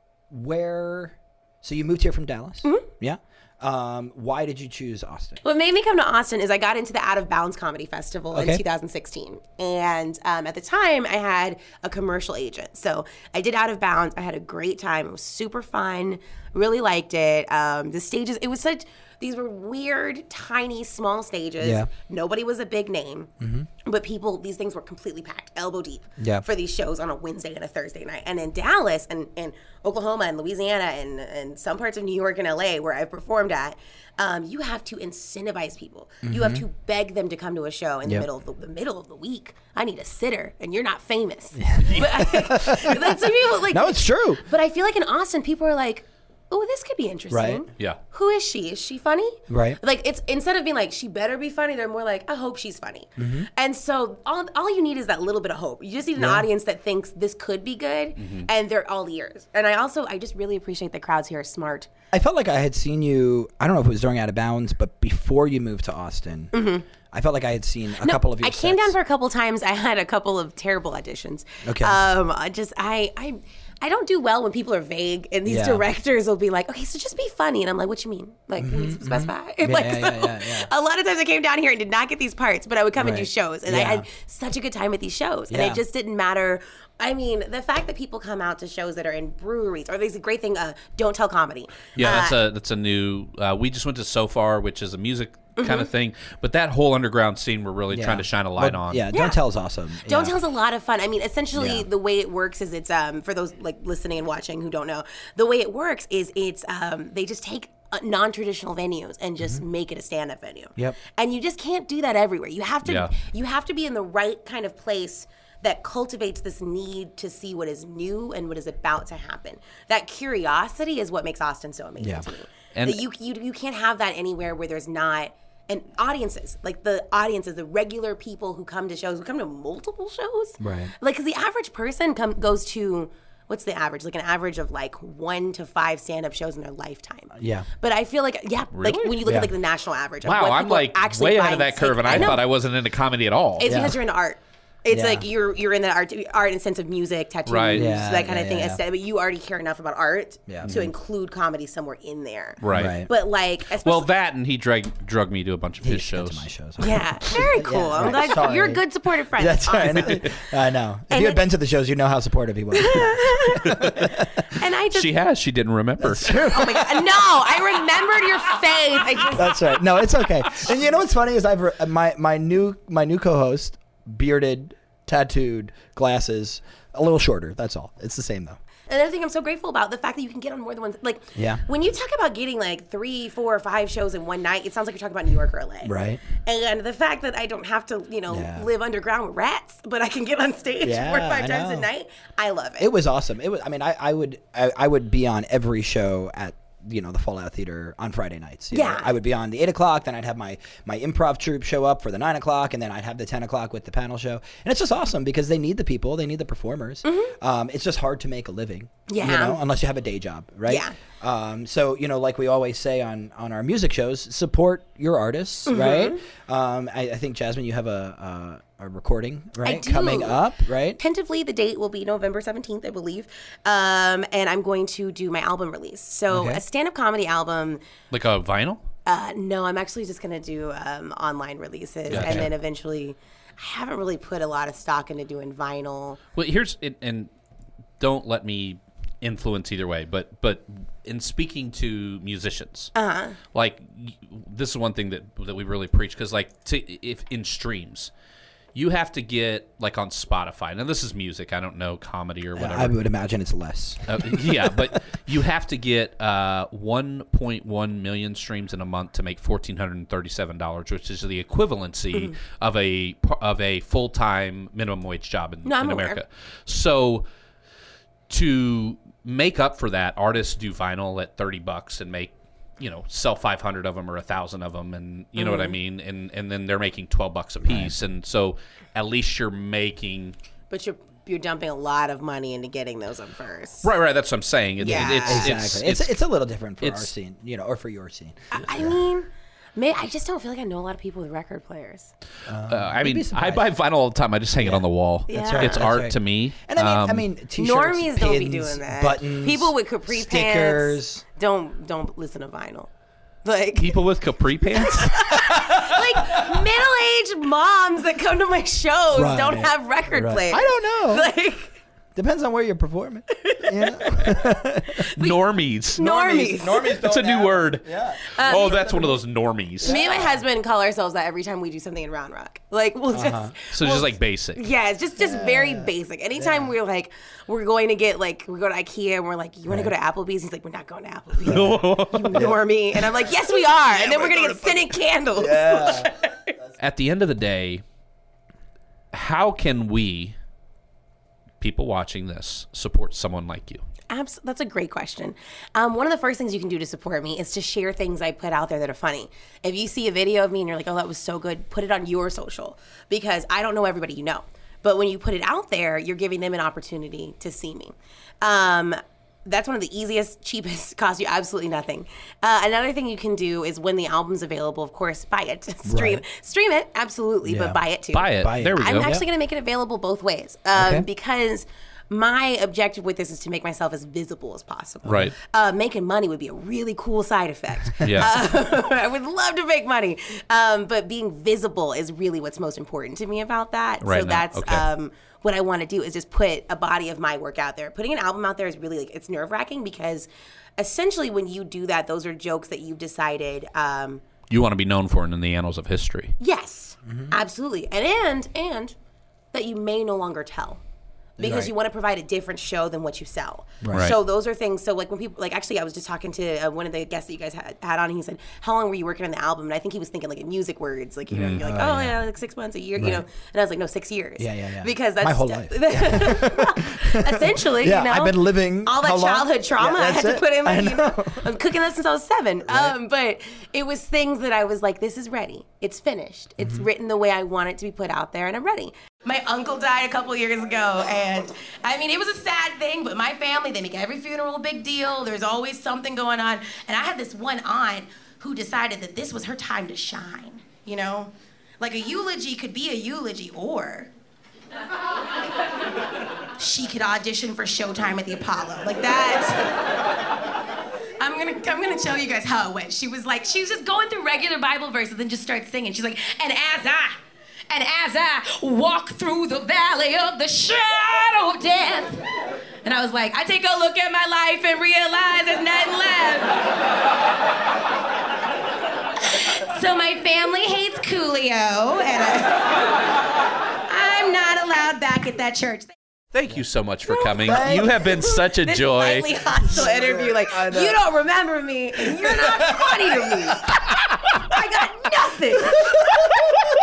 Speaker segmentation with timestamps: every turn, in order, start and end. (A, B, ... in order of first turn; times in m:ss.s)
0:00.3-0:05.4 A
0:05.4-0:23.3 B
0:08.3-0:08.6 A
0:21.6-0:21.9 A
0:23.4-0:23.7 A
0:23.8-1:01.9 B
0:26.2-0:26.4 A
0:36.2-0:36.7 A
0:41.6-0:44.4 A
0:47.3-0:47.6 A
0:49.5-0:49.8 A
0:53.2-0:53.5 A
0:56.2-0:56.5 A
0:58.2-0:58.5 C
1:02.1-1:06.5 A
1:06.5-1:06.9 B
1:07.1-1:09.0 A
1:08.0-1:32.4 B
1:11.6-1:12.1 A
1:15.5-1:15.9 A
1:18.6-1:20.7 A
1:23.0-1:24.1 A
1:25.5-1:25.8 A
1:32.0-1:32.3 A
1:32.0-1:39.1 C
1:35.6-1:35.9 B
1:37.9-1:40.4 A
1:39.1-1:39.4 B
1:40.0-2:22.5 B
1:41.5-1:41.9 A
1:52.8-1:53.1 C
2:02.0-2:02.3 A
2:02.8-2:03.0 C
2:10.6-2:10.9 A
2:17.3-2:17.7 A
2:18.7-2:19.2 C
2:19.2-2:19.5 A
2:20.2-2:23.9 C
2:22.1-2:22.4 A
2:23.6-2:34.1 B
2:23.6-2:24.0 A
2:24.9-2:25.3 A
2:27.5-2:27.9 C
2:27.8-2:28.8 A
2:30.5-2:30.8 A
2:30.6-2:30.9 C
2:32.6-2:33.0 C
2:32.7-2:33.1 A
2:33.7-2:36.5 C
2:35.8-2:44.4 A
2:36.8-2:40.4 B
2:38.0-2:38.3 C
2:39.9-2:40.2 C
2:41.1-2:41.5 B
2:42.7-2:45.2 B
2:43.7-2:44.0 C
2:44.9-2:46.6 C
2:46.0-2:47.1 A
2:46.4-2:49.5 B
2:49.3-2:58.6 A
2:58.9-3:12.9 B
3:01.4-3:01.6 A
3:05.8-3:06.2 A
3:08.3-3:08.7 A
3:10.8-3:11.9 A
3:12.8-3:41.0 A
3:18.7-3:19.1 B
3:27.0-3:27.3 B
3:29.1-3:29.6 B
3:30.7-3:31.0 B
3:35.7-3:36.2 B
3:39.6-3:47.8 B
3:46.3-3:46.6 A
3:48.1-3:48.8 C
3:49.0-3:56.2 B
3:52.1-3:52.5 C
3:52.1-3:52.5 A
3:56.4-3:57.3 C
3:58.0-4:02.9 C
4:03.0-4:03.4 B
4:03.5-4:08.1 C
4:08.8-4:13.0 C
4:12.6-4:15.0 A
4:14.1-4:27.2 C
4:25.6-4:26.2 B
4:28.3-4:40.4 C
4:35.4-4:35.8 B
4:37.6-4:38.0 A
4:40.7-4:43.9 B
4:43.8-4:46.2 C
4:44.8-4:45.6 B
4:44.8-4:49.0 A
4:46.8-4:47.1 C
4:48.5-4:52.1 B
4:52.5-4:53.7 A
4:52.7-4:57.3 C
4:54.6-5:01.2 A
4:55.3-4:55.8 B
4:57.6-5:02.9 B
5:03.4-5:04.0 B
5:03.8-5:05.6 C
5:04.8-5:11.8 B
5:09.1-5:11.3 A
5:12.2-5:15.1 A
5:13.3-5:15.4 B
5:15.2-5:16.1 C
5:16.0-5:17.0 B
5:16.0-5:19.2 A
5:16.9-5:20.0 C
5:18.3-5:19.2 B
5:19.8-5:20.4 A
5:19.8-5:36.6 B
5:23.1-5:23.5 A
5:23.7-5:24.7 C
5:25.2-5:26.7 A
5:29.7-5:29.9 A
5:31.4-5:32.5 C
5:31.5-5:36.1 A
5:36.8-5:37.8 C
5:39.1-5:40.4 C
5:41.6-5:43.8 C
5:44.1-6:34.2 B
6:05.8-6:06.2 A
6:07.4-6:07.8 A
6:08.1-6:09.1 C
6:08.3-6:09.3 A
6:10.7-6:11.1 A
6:15.0-6:15.4 C
6:18.0-6:18.3 C
6:24.0-6:24.9 C
6:34.5-6:36.3 C
6:36.4-6:38.9 B
6:37.0-6:37.4 A
6:39.5-6:40.8 B
6:41.4-6:41.7 A
6:41.4-7:24.1 B
6:43.8-6:44.1 A
6:51.3-6:51.6 C
6:51.5-6:52.2 A
6:53.0-6:53.2 A
6:54.4-7:01.5 A
7:02.7-7:03.0 A
7:06.6-7:06.9 A
7:26.6-7:29.8 B
7:31.2-7:37.2 B
7:37.7-7:42.2 B
7:42.8-7:46.6 B
7:49.4-7:52.9 B
7:53.9-7:55.9 B
7:56.3-7:59.3 C
7:57.1-8:06.2 B
7:57.4-7:58.0 A
7:59.6-8:01.0 A
8:02.1-8:03.6 A
8:05.8-8:06.5 A